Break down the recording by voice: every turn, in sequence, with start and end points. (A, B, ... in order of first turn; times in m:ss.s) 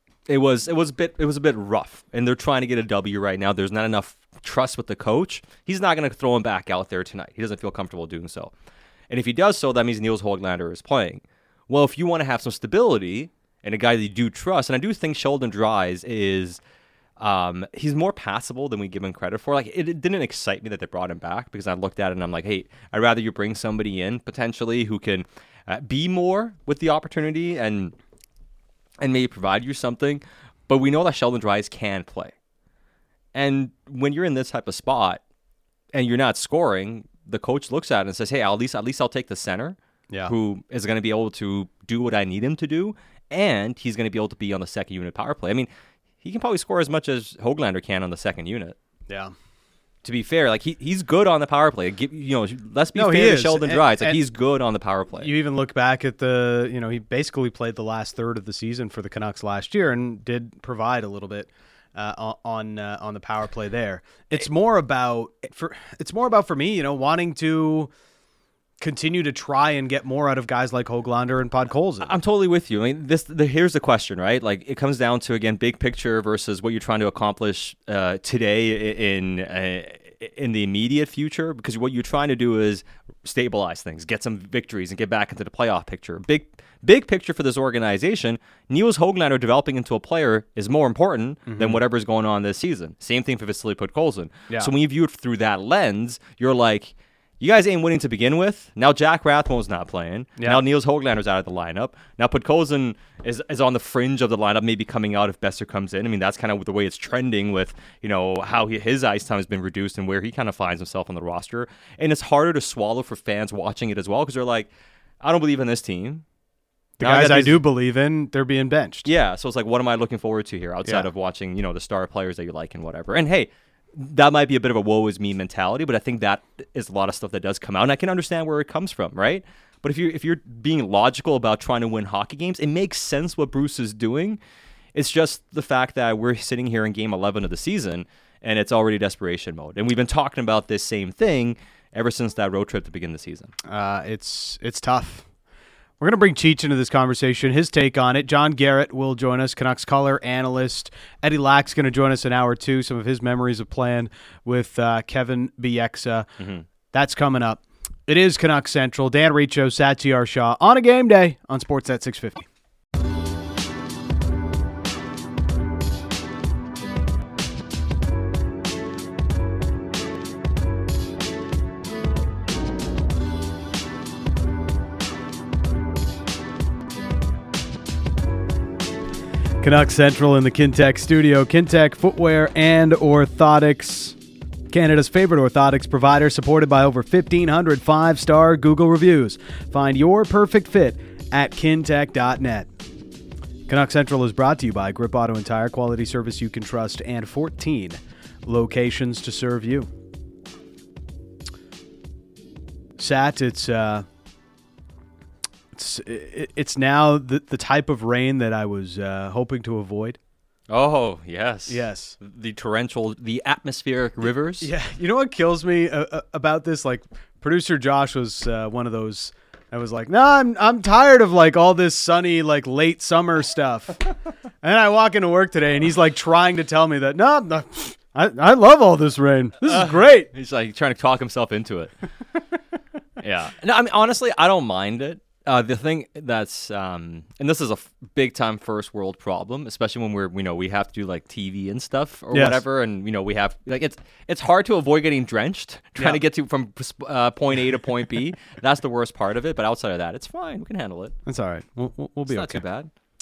0:00.3-0:08.5 A
0:09.1-0:16.6 A
0:17.2-0:27.9 A
0:29.0-0:32.3 A
0:33.3-0:35.2 A
0:35.9-0:45.7 A
0:46.2-0:48.8 A
0:50.0-0:55.3 A
0:52.9-0:54.2 B
0:55.2-1:07.9 B
1:08.8-1:12.1 B
1:12.0-1:54.7 A
1:31.4-1:31.8 B
1:55.2-1:56.2 A
1:57.0-1:59.1 B
1:57.0-1:57.6 A
1:59.0-2:14.4 A
2:14.9-2:23.5 A
2:23.6-2:25.3 B
2:26.0-2:36.3 B
2:36.4-2:36.6 A
2:36.9-2:42.5 B
2:59.6-3:04.2 B
3:04.7-3:12.7 B
3:13.7-3:19.9 B
3:23.0-3:24.0 B
3:25.7-3:30.2 B
3:30.7-3:34.7 A
3:31.7-3:32.2 B
3:34.6-3:44.0 B
3:44.6-3:50.3 B
3:49.6-3:52.0 A
3:53.2-4:11.1 A
4:02.3-4:02.6 B
4:11.2-4:12.6 B
4:12.3-4:12.9 A